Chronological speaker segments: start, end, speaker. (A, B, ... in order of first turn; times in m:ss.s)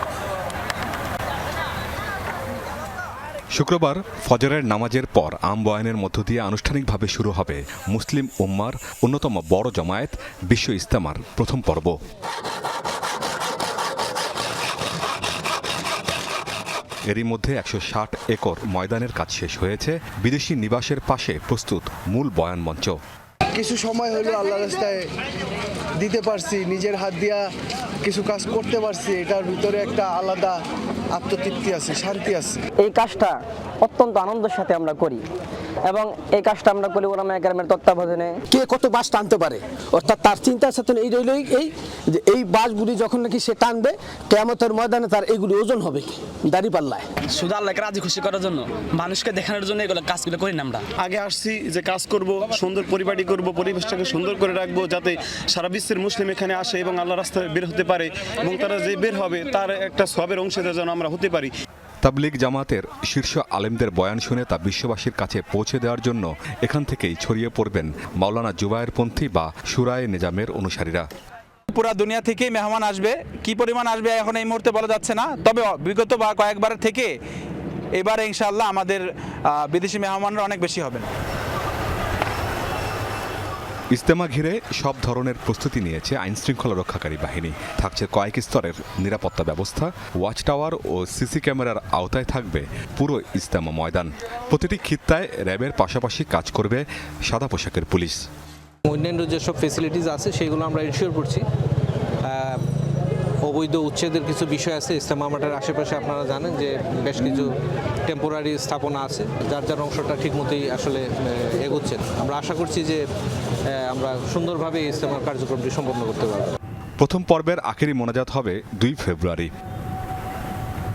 0:03.5-0:11.9 A
0:17.1-0:23.0 A
0:23.5-0:25.0 B
0:26.0-0:27.4 B
0:28.0-0:30.6 B
0:31.1-0:32.6 B
0:32.8-0:35.2 C
0:35.8-0:38.4 C
0:38.6-0:41.7 D
0:42.2-0:47.0 D
0:47.3-0:50.8 E
0:51.0-1:01.5 F
1:02.0-1:11.0 A
1:11.7-1:17.1 G
1:18.0-1:21.0 G
1:23.9-1:38.2 A
1:38.8-1:41.4 H
1:42.2-1:42.6 H
1:43.4-1:47.5 H
1:48.0-1:53.0 H
1:53.7-1:56.5 H
1:57.0-1:59.5 A